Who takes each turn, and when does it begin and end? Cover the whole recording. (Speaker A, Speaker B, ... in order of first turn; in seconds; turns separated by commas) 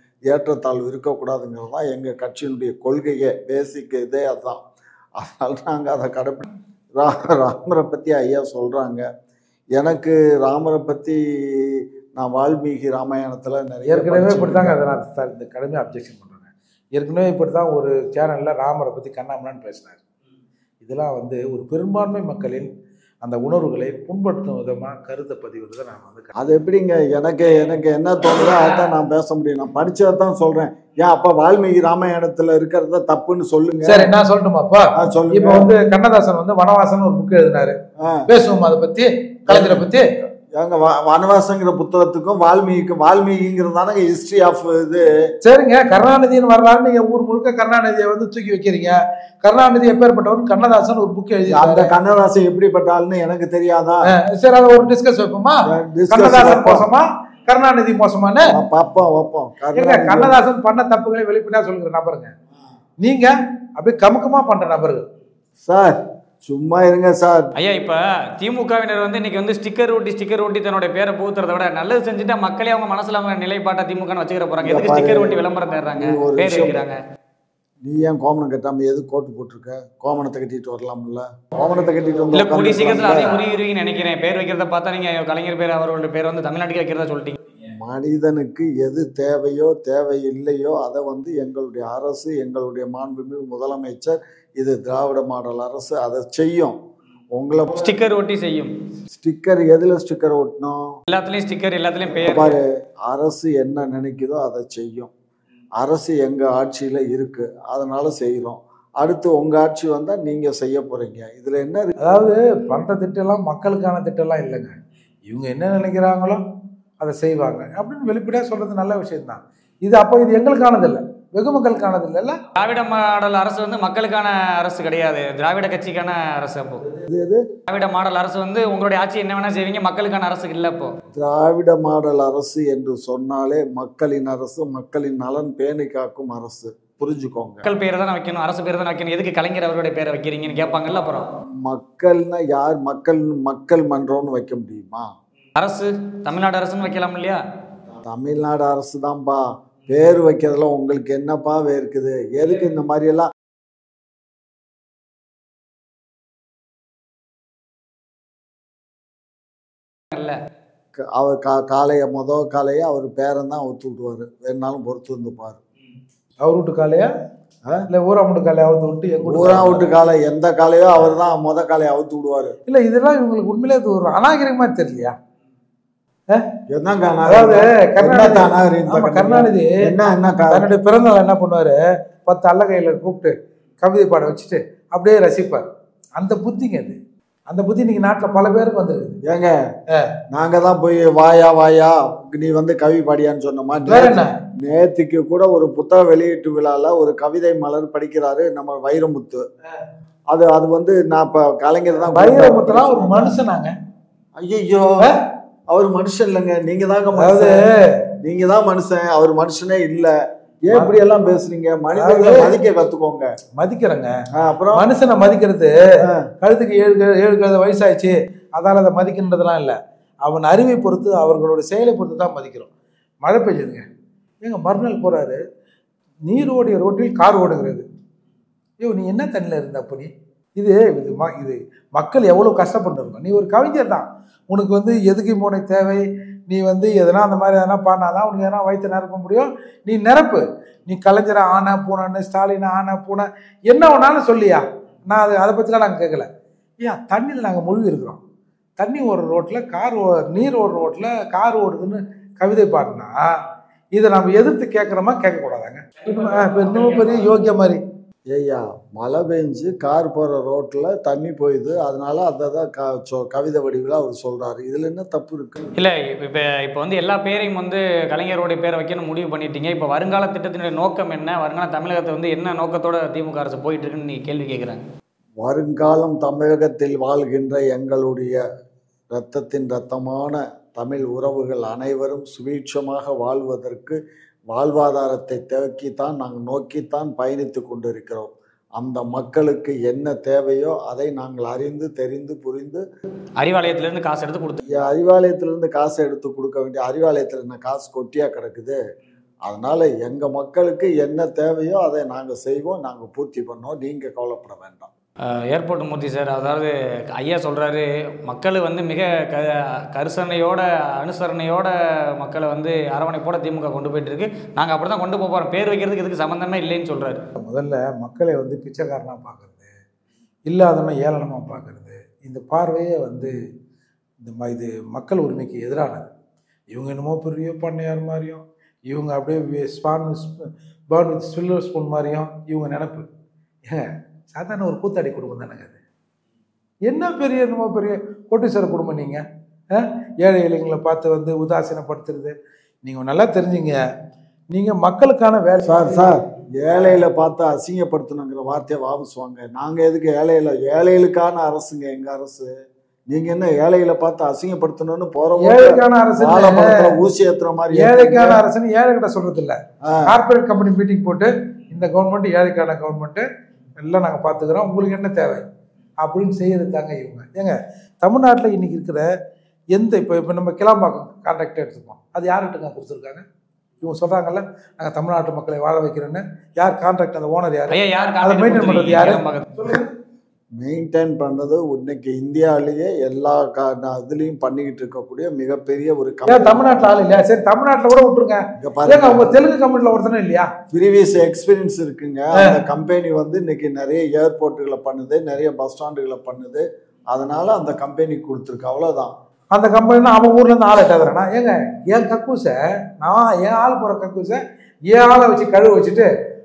Speaker A: 0.3-4.6, Speaker A: 5.2-9.1, Speaker A: 9.8-14.8, Speaker B: 13.9-20.0, Speaker B: 20.8-22.7, Speaker B: 23.2-26.3, Speaker A: 26.4-34.1, Speaker B: 33.9-37.8, Speaker A: 34.9-35.7, Speaker A: 38.0-38.3, Speaker B: 38.3-40.1, Speaker A: 39.5-45.3, Speaker B: 45.4-51.9, Speaker A: 51.5-54.1, Speaker B: 54.0-58.5, Speaker A: 55.6-56.9, Speaker A: 58.5-60.4, Speaker B: 59.7-62.3, Speaker B: 63.0-65.0, Speaker A: 65.6-67.5, Speaker C: 67.6-77.0, Speaker A: 74.6-75.4, Speaker A: 76.0-76.8, Speaker A: 77.8-83.3, Speaker C: 82.3-87.4, Speaker A: 87.7-96.8, Speaker A: 97.3-97.9, Speaker C: 97.8-98.7, Speaker A: 99.1-101.0, Speaker C: 101.1-102.5, Speaker A: 102.1-105.1, Speaker A: 105.8-111.9, Speaker B: 112.0-116.4, Speaker B: 117.0-122.4, Speaker C: 122.5-126.8, Speaker A: 126.9-127.5, Speaker C: 127.7-130.9, Speaker A: 131.1-137.7, Speaker C: 137.6-141.2, Speaker A: 141.6-145.1, Speaker C: 145.6-147.4, Speaker A: 147.9-153.3, Speaker C: 160.1-160.4, Speaker A: 161.0-165.6, Speaker B: 166.4-167.1, Speaker B: 167.9-169.9, Speaker A: 169.2-172.5, Speaker B: 172.7-175.1, Speaker A: 176.7-180.6, Speaker B: 177.2-179.8, Speaker B: 180.5-185.6, Speaker B: 186.2-187.0, Speaker B: 187.5-189.2, Speaker A: 189.2-189.6, Speaker A: 190.3-199.4, Speaker B: 193.9-194.3, Speaker A: 200.3-203.4, Speaker B: 202.1-203.7, Speaker A: 204.4-205.1, Speaker A: 205.7-207.5, Speaker B: 207.2-208.0, Speaker A: 208.2-213.3, Speaker B: 210.7-211.0, Speaker B: 211.9-212.6, Speaker B: 213.5-214.1, Speaker A: 214.3-214.9, Speaker B: 214.7-215.7, Speaker A: 216.0-216.3, Speaker B: 216.4-222.7, Speaker B: 223.2-223.8, Speaker B: 224.4-225.4, Speaker B: 226.2-227.8, Speaker B: 228.8-246.3, Speaker B: 246.8-248.2, Speaker B: 248.8-253.2, Speaker B: 253.9-257.8, Speaker A: 258.3-265.7, Speaker C: 265.7-274.8, Speaker A: 275.4-278.4, Speaker A: 279.1-284.0, Speaker A: 284.5-292.8, Speaker C: 293.4-294.6, Speaker A: 294.6-298.8, Speaker A: 299.4-304.9, Speaker C: 305.3-317.2, Speaker B: 317.4-319.7, Speaker B: 320.5-323.3, Speaker B: 324.2-326.1, Speaker B: 326.7-333.0, Speaker B: 333.6-335.8, Speaker B: 336.9-343.8, Speaker B: 344.5-346.1, Speaker A: 345.6-352.5, Speaker A: 353.1-358.4, Speaker B: 355.4-356.9, Speaker B: 357.7-363.2, Speaker A: 359.8-360.2, Speaker B: 363.8-365.4, Speaker B: 366.0-369.1, Speaker B: 369.7-373.2, Speaker B: 373.8-379.9, Speaker C: 377.7-379.5, Speaker A: 380.6-386.9, Speaker B: 386.3-390.5, Speaker A: 388.6-389.3, Speaker A: 390.7-399.1, Speaker B: 399.5-406.1